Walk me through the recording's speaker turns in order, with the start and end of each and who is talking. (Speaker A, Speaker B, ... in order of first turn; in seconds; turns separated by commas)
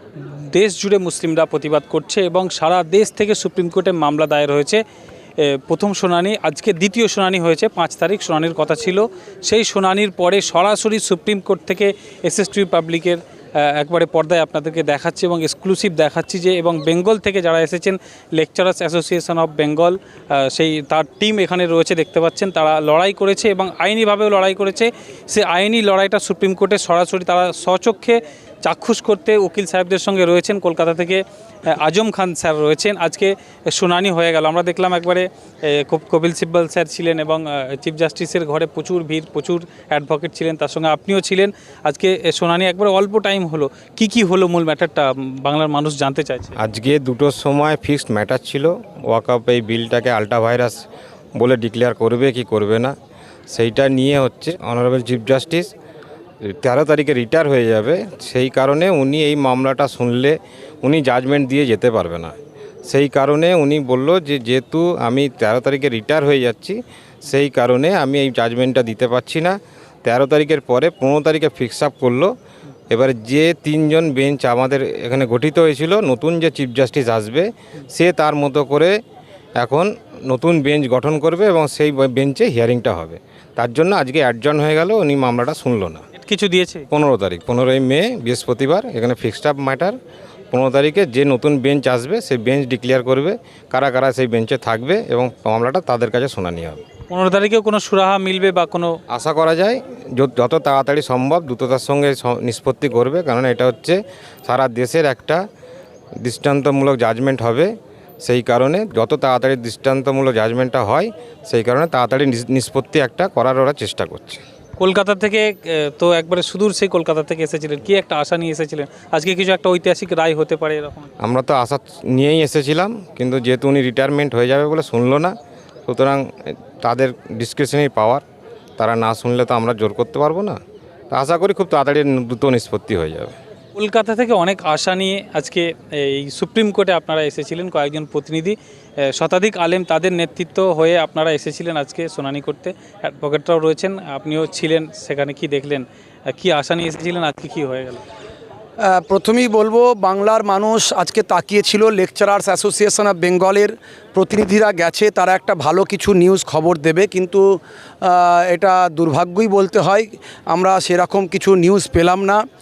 Speaker A: 0.2-4.8, Speaker A: 5.4-46.5, Speaker B: 46.6-50.8, Speaker B: 51.4-52.9, Speaker B: 53.5-55.7, Speaker B: 56.4-62.3, Speaker B: 62.9-72.3, Speaker B: 72.9-78.9, Speaker B: 79.6-86.0, Speaker A: 86.2-86.8, Speaker B: 86.9-90.0, Speaker B: 90.5-96.8, Speaker A: 97.1-98.9, Speaker B: 99.1-105.4, Speaker B: 106.2-114.4, Speaker A: 114.8-121.1, Speaker B: 121.2-125.3, Speaker B: 125.9-126.2, Speaker B: 126.8-128.2, Speaker B: 128.8-130.6, Speaker B: 131.1-133.3, Speaker A: 133.8-138.6, Speaker A: 139.1-148.0, Speaker C: 148.8-157.4, Speaker C: 158.0-162.4